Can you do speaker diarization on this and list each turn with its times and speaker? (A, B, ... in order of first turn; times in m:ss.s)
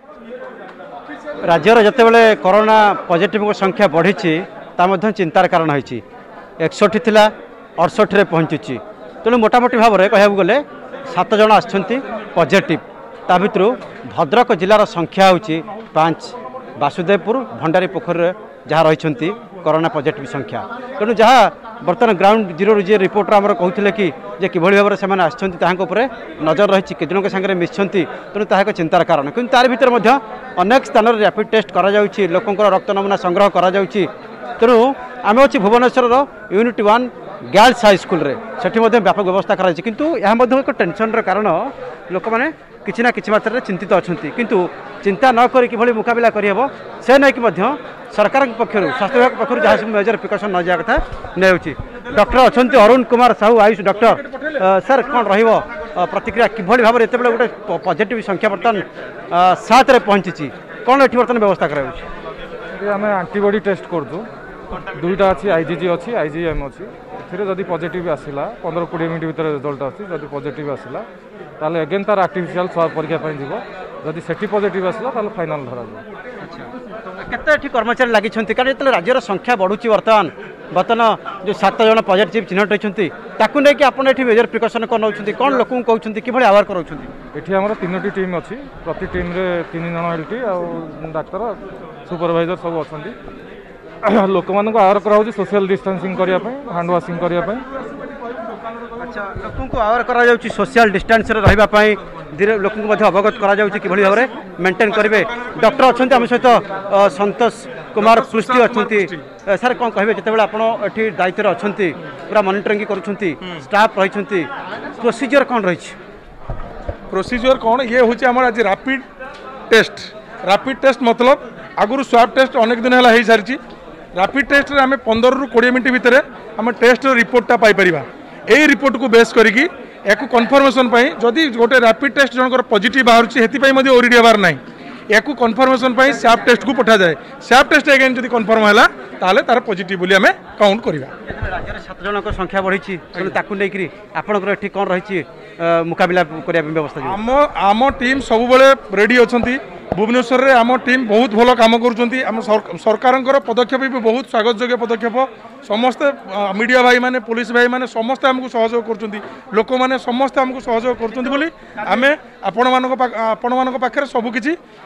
0:01.4-0:06.0 A
0:06.6-1:02.1 A
0:54.1-0:54.6 B
1:02.8-1:04.3 C
1:04.9-1:11.1 C
1:11.6-1:16.0 C
1:16.4-1:27.1 A
1:27.3-1:33.1 C
1:34.0-1:37.6 C
1:39.0-1:56.0 A
1:45.0-1:46.0 B
1:48.0-1:49.3 B
1:57.1-1:59.1 B
1:59.7-2:03.6 B
2:04.1-2:21.1 B
2:21.2-2:27.2 A
2:27.0-2:44.6 B